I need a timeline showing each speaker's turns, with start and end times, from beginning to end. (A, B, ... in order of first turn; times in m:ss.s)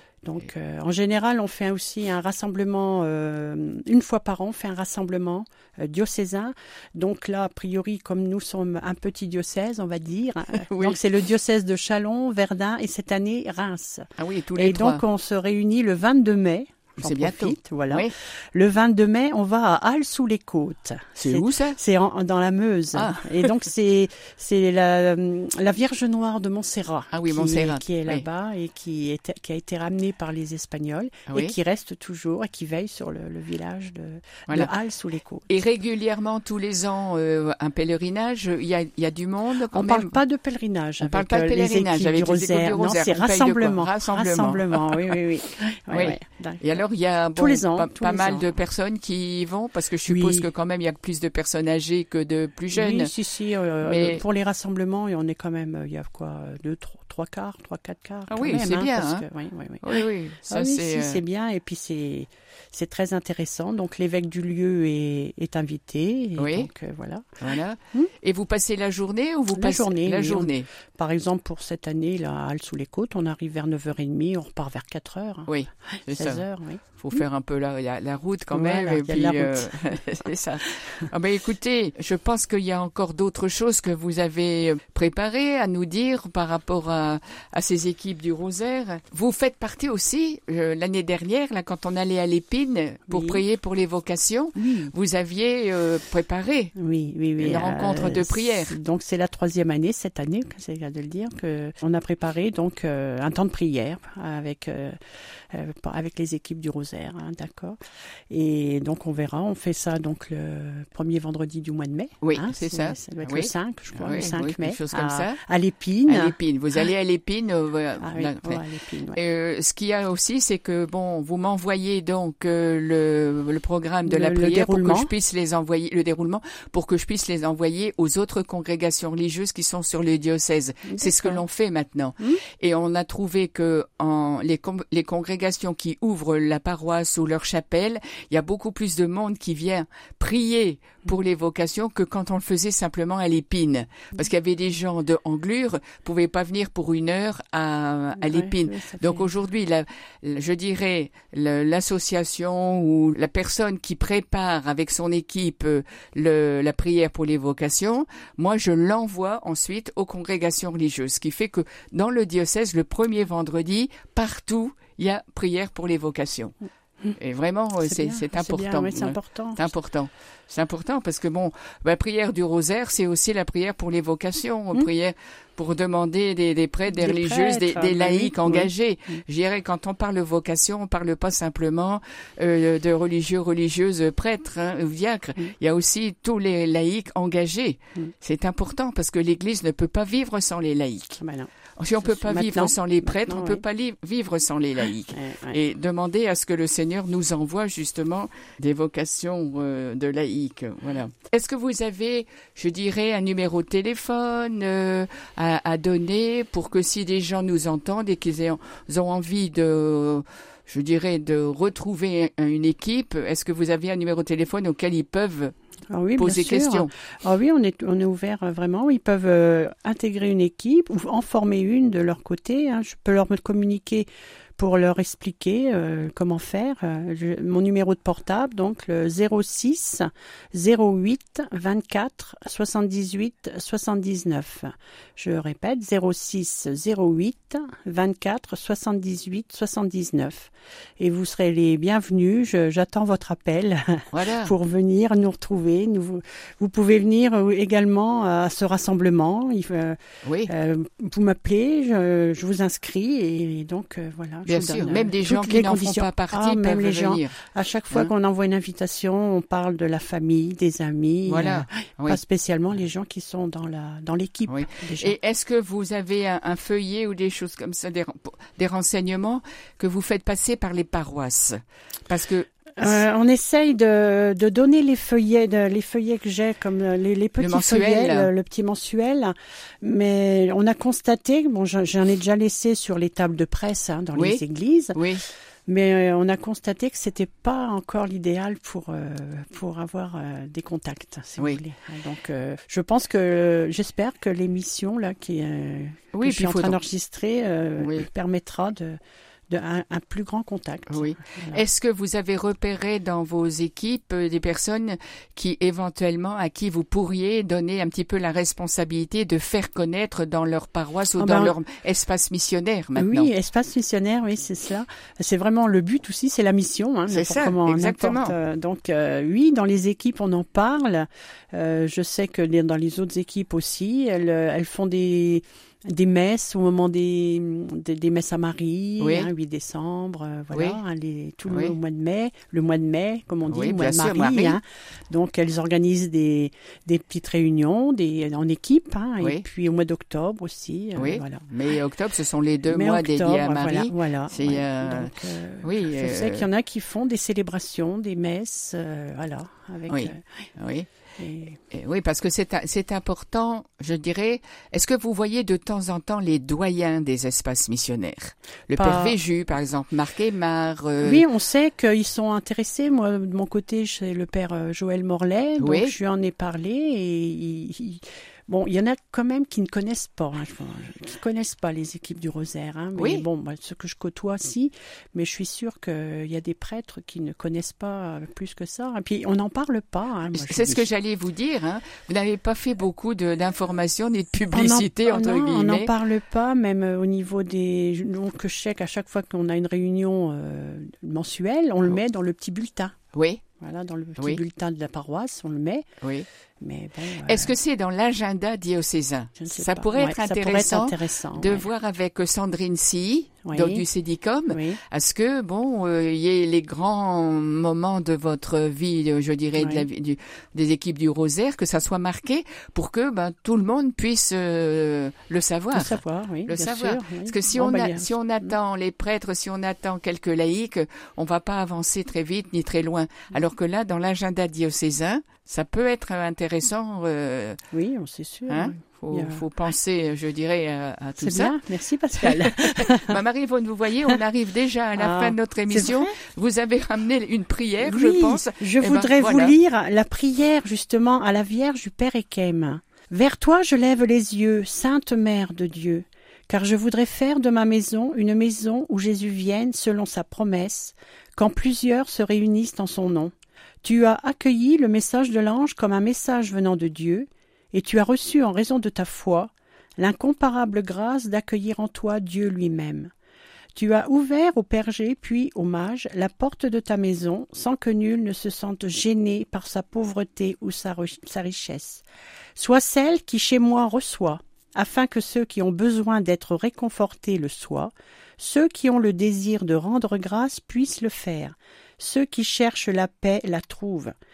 0:00.2-0:35.5 A
0:10.6-0:11.0 B
0:14.2-0:15.0 B
0:17.0-0:18.1 B
0:21.2-0:21.8 B
0:22.9-0:23.5 B
0:27.1-0:28.2 B
0:35.5-0:40.2 B
0:39.7-0:46.8 A
0:41.0-0:45.1 B
0:45.9-0:53.1 B
0:47.3-0:48.5 A
0:50.1-0:50.5 A
0:52.7-1:07.4 A
0:53.8-0:54.2 B
0:58.3-0:59.2 B
0:59.8-1:01.2 B
1:06.4-1:06.7 B
1:07.4-1:10.7 B
1:09.5-1:16.8 A
1:15.5-1:36.7 B
1:18.5-1:20.0 A
1:33.1-1:33.4 A
1:34.6-1:34.9 A
1:36.7-1:45.0 A
1:37.4-1:38.7 B
1:45.5-1:47.8 A
1:48.3-1:56.4 A
1:52.2-1:55.4 B
1:56.1-1:58.6 B
1:58.0-1:59.2 A
1:59.1-2:46.5 B
2:04.0-2:05.1 A
2:10.8-2:11.4 A
2:28.2-2:29.3 A
2:47.2-3:11.2 B
2:47.8-2:49.7 A
2:56.9-2:58.7 A
3:11.2-3:13.6 A
3:11.8-3:35.5 B
3:15.1-3:15.6 A
3:35.9-4:25.1 A
3:36.2-3:36.9 B
4:04.1-4:04.5 B
4:10.2-4:10.5 B
4:14.4-4:17.3 B
4:21.3-4:22.2 B
4:24.5-4:33.0 B
4:32.8-4:45.0 A
4:37.4-4:38.3 B
4:44.2-4:44.4 B
4:44.9-4:45.2 B
4:45.7-4:59.0 A
4:56.1-4:56.8 B
4:57.8-4:58.1 B
4:59.5-5:01.6 A
5:00.9-5:13.3 B
5:11.2-5:11.5 A
5:13.0-5:41.5 A
5:17.1-5:18.3 B
5:29.0-5:29.3 B
5:30.5-5:30.8 B
5:31.5-5:31.7 B
5:33.5-5:34.6 B
5:41.0-5:46.5 B
5:42.7-5:50.5 A
5:49.9-5:50.9 B
5:51.2-5:51.6 A
5:51.7-6:01.2 B
5:58.8-5:59.2 A
6:01.0-6:20.8 A
6:05.6-6:05.9 B
6:13.0-6:13.2 B
6:20.3-6:25.9 B
6:24.5-6:33.0 A
6:33.1-6:33.4 B
6:33.6-6:35.9 A
6:36.0-6:36.3 B
6:36.6-6:37.5 A
6:37.2-7:07.6 B
6:39.4-6:41.7 A
6:43.4-6:43.8 A
6:44.5-6:44.8 A
6:49.6-6:49.8 A
6:55.7-6:58.6 A
7:07.7-7:09.4 A
7:08.5-7:11.6 B
7:11.2-7:13.2 A
7:12.2-7:19.5 B
7:15.0-7:16.1 A
7:17.8-7:33.3 A
7:33.8-7:43.1 A
7:43.8-7:52.0 A
7:52.6-8:04.1 A